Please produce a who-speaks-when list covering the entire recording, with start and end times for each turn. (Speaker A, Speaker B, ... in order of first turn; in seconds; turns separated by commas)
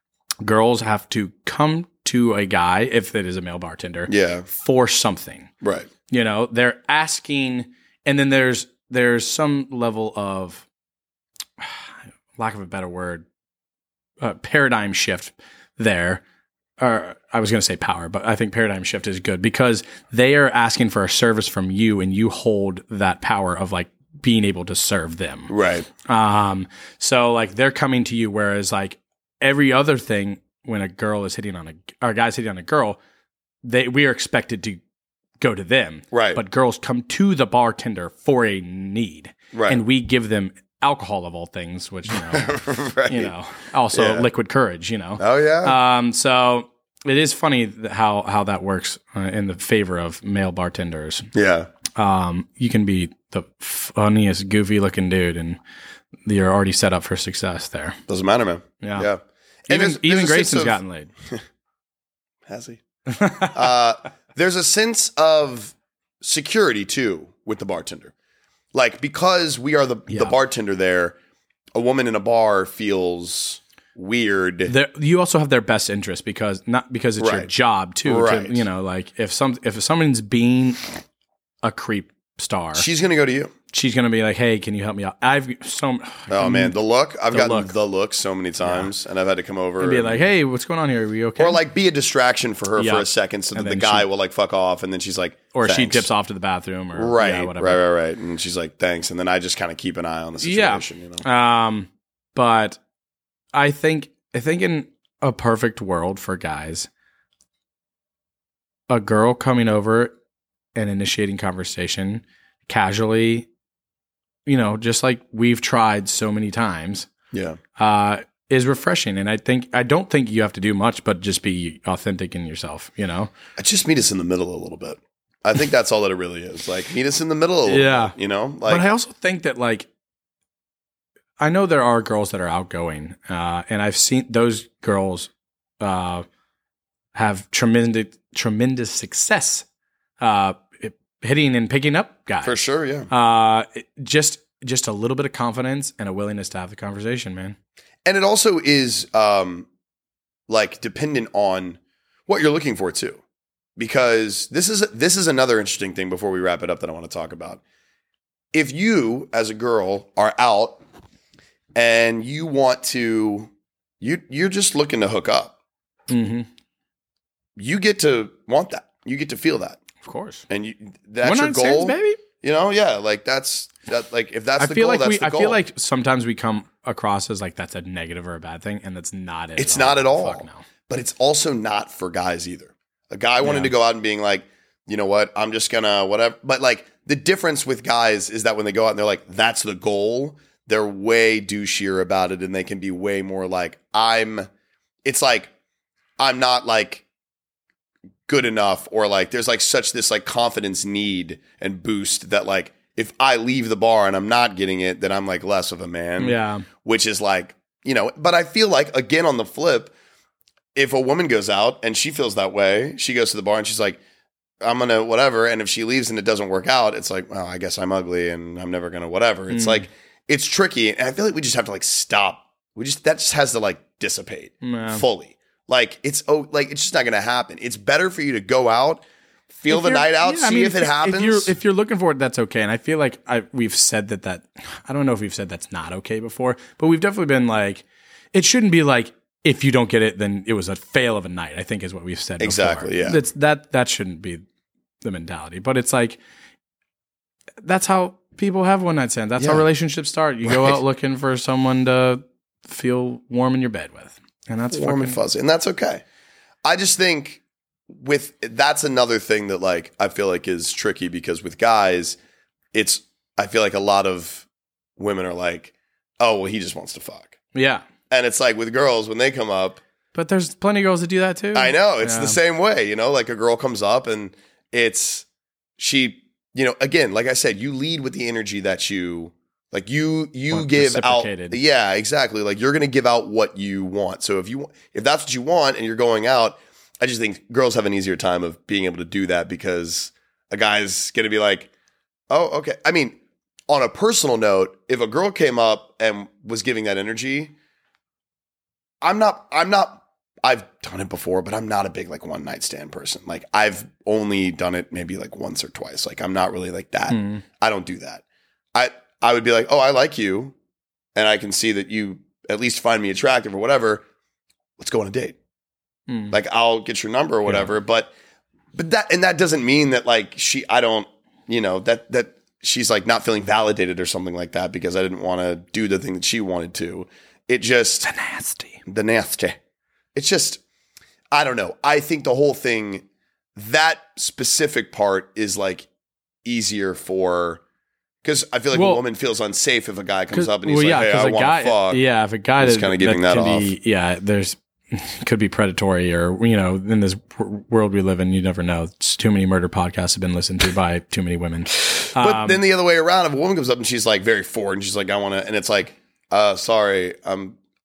Speaker A: 0.4-5.5, Speaker B: 4.1-4.5, Speaker B: 5.6-5.9, Speaker A: 6.1-10.7, Speaker A: 11.6-13.3, Speaker A: 14.2-16.2, Speaker A: 16.8-25.5, Speaker B: 25.5-25.9, Speaker A: 26.0-33.0, Speaker A: 33.6-34.8, Speaker A: 35.4-42.5, Speaker B: 36.1-36.4, Speaker B: 39.5-39.8, Speaker B: 42.1-43.3, Speaker A: 43.1-51.3, Speaker B: 43.9-44.3, Speaker B: 45.2-45.8, Speaker B: 51.3-51.7, Speaker A: 52.0-55.6, Speaker A: 56.3-58.0, Speaker B: 58.1-61.4, Speaker A: 58.8-59.1, Speaker A: 59.7-61.1, Speaker B: 62.5-62.8, Speaker A: 63.1-63.6, Speaker B: 63.4-68.1, Speaker B: 68.7-71.2, Speaker A: 70.1-70.3, Speaker B: 71.7-74.7, Speaker A: 74.7-80.9, Speaker B: 77.2-77.5, Speaker B: 78.0-78.7, Speaker A: 81.6-82.9, Speaker B: 82.8-83.5, Speaker A: 83.7-86.8, Speaker B: 86.3-90.3, Speaker A: 87.3-87.7, Speaker A: 88.6-88.9, Speaker A: 89.8-91.6, Speaker B: 91.4-96.1, Speaker A: 92.8-94.1, Speaker A: 95.5-97.8, Speaker B: 97.0-101.2, Speaker A: 100.4-102.8, Speaker A: 103.5-106.9, Speaker A: 108.9-110.1, Speaker A: 110.8-113.5, Speaker A: 114.5-117.1, Speaker B: 117.3-117.6, Speaker A: 117.8-123.3, Speaker B: 123.6-128.8, Speaker A: 127.7-128.2, Speaker A: 128.7-129.9, Speaker A: 131.4-136.2, Speaker A: 137.1-139.7, Speaker A: 140.2-142.6, Speaker B: 142.4-143.1, Speaker A: 143.1-147.6, Speaker B: 148.1-149.7, Speaker B: 150.5-153.2, Speaker B: 153.8-157.6, Speaker B: 158.5-160.8, Speaker B: 161.8-165.6, Speaker A: 166.1-166.5, Speaker B: 167.6-169.8, Speaker A: 170.0-170.5, Speaker B: 170.5-175.6, Speaker A: 171.2-172.2, Speaker A: 174.6-180.6, Speaker B: 179.6-194.5, Speaker A: 183.4-183.7, Speaker B: 195.1-195.5, Speaker B: 196.2-197.1, Speaker B: 198.3-209.9, Speaker A: 206.2-206.7, Speaker B: 210.8-214.0, Speaker B: 214.6-231.5, Speaker A: 219.5-219.9, Speaker A: 224.6-225.0, Speaker A: 229.7-244.4, Speaker B: 242.4-243.2, Speaker A: 245.0-246.2, Speaker A: 247.6-255.2, Speaker B: 249.4-249.6, Speaker B: 250.4-250.8, Speaker B: 254.7-256.0, Speaker B: 256.6-262.2, Speaker B: 262.7-267.3, Speaker A: 267.6-267.8, Speaker B: 268.1-269.8, Speaker A: 270.1-272.4, Speaker B: 271.5-275.3, Speaker B: 275.8-291.7, Speaker A: 280.5-281.6, Speaker B: 292.3-297.5, Speaker B: 299.0-310.6, Speaker A: 307.1-307.4, Speaker B: 311.1-314.0, Speaker B: 314.8-315.4, Speaker A: 316.1-316.4, Speaker B: 316.3-318.1, Speaker B: 318.8-328.1, Speaker A: 328.1-328.8, Speaker B: 328.9-329.6, Speaker B: 330.1-330.6, Speaker B: 331.3-333.0, Speaker B: 333.6-335.9, Speaker B: 336.4-337.6, Speaker B: 338.2-342.0, Speaker A: 338.7-339.0, Speaker A: 340.3-352.6, Speaker B: 342.6-343.7, Speaker B: 351.9-357.6